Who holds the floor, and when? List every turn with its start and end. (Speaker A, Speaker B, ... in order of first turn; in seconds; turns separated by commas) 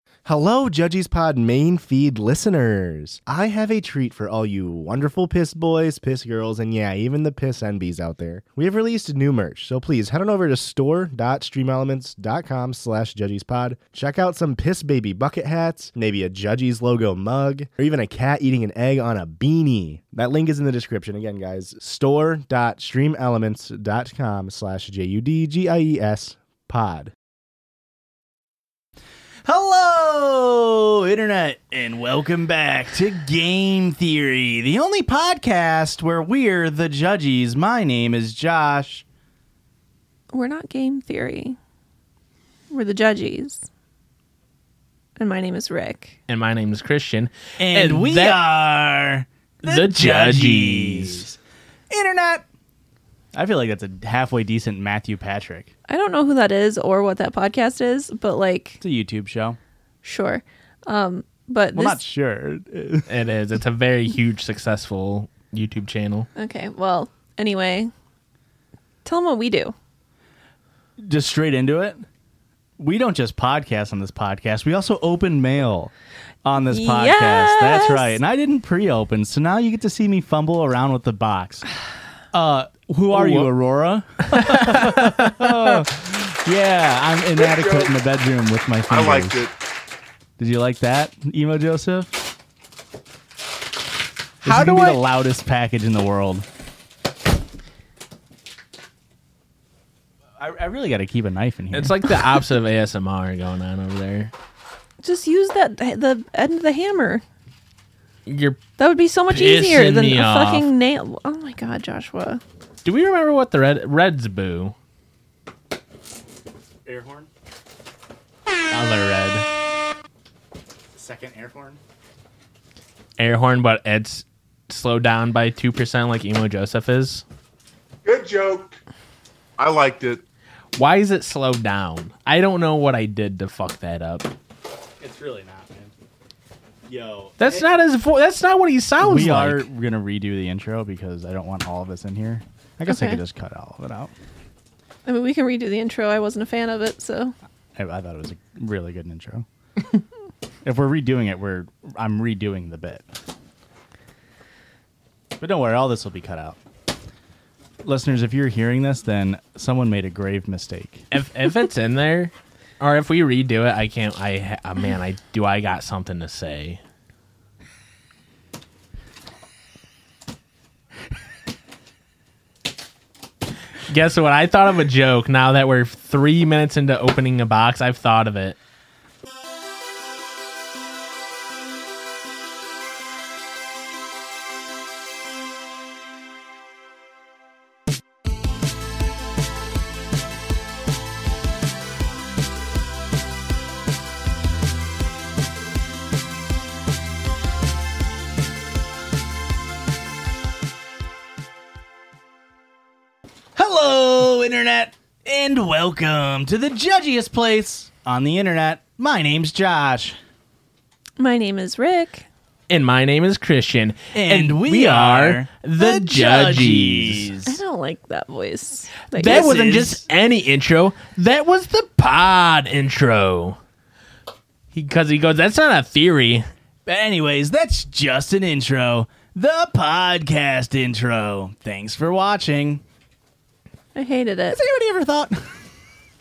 Speaker A: 0.2-27.1, Speaker B: 29.4-39.0, Speaker C: 40.3-41.6, Speaker C: 42.7-43.7, Speaker C: 45.2-46.1, Speaker D: 46.3-48.4, Speaker B: 47.6-51.4, Speaker D: 49.6-51.3, Speaker B: 51.9-52.5, Speaker B: 53.3-55.7, Speaker C: 55.9-58.8, Speaker B: 58.8-59.6, Speaker C: 60.0-62.0, Speaker B: 61.7-63.1, Speaker D: 63.1-66.3, Speaker C: 66.3-67.9, Speaker C: 69.0-69.7, Speaker B: 71.0-72.0, Speaker B: 72.8-75.9, Speaker B: 76.4-81.7, Speaker C: 76.7-78.2, Speaker B: 82.3-89.4, Speaker D: 83.1-83.5, Speaker D: 84.3-85.8, Speaker E: 87.3-88.0, Speaker E: 88.9-89.5, Speaker B: 90.4-92.2, Speaker D: 94.4-95.0, Speaker B: 94.4-96.5, Speaker B: 100.4-101.9, Speaker D: 101.7-104.3, Speaker C: 105.0-107.2, Speaker D: 108.2-108.6, Speaker C: 108.8-112.4, Speaker D: 109.3-110.7, Speaker D: 112.8-114.7, Speaker B: 116.8-117.3, Speaker D: 118.7-119.5, Speaker B: 120.9-121.8, Speaker D: 123.2-127.2, Speaker E: 128.0-128.8, Speaker E: 129.6-130.2, Speaker D: 130.7-134.3, Speaker B: 135.0-135.9, Speaker B: 136.8-137.7, Speaker D: 137.4-139.6, Speaker B: 139.0-144.1, Speaker C: 142.9-143.2, Speaker C: 145.1-147.3, Speaker B: 147.8-149.4, Speaker B: 150.6-153.2, Speaker B: 155.4-156.6, Speaker B: 157.8-161.1, Speaker D: 161.1-166.8, Speaker D: 173.9-178.6, Speaker B: 203.6-210.2, Speaker C: 211.2-212.2, Speaker D: 212.7-217.3, Speaker B: 214.1-217.6, Speaker C: 217.4-219.5, Speaker D: 219.1-223.6, Speaker B: 219.2-220.0, Speaker D: 224.7-226.5, Speaker B: 226.8-232.8, Speaker C: 233.9-234.6, Speaker B: 234.5-235.6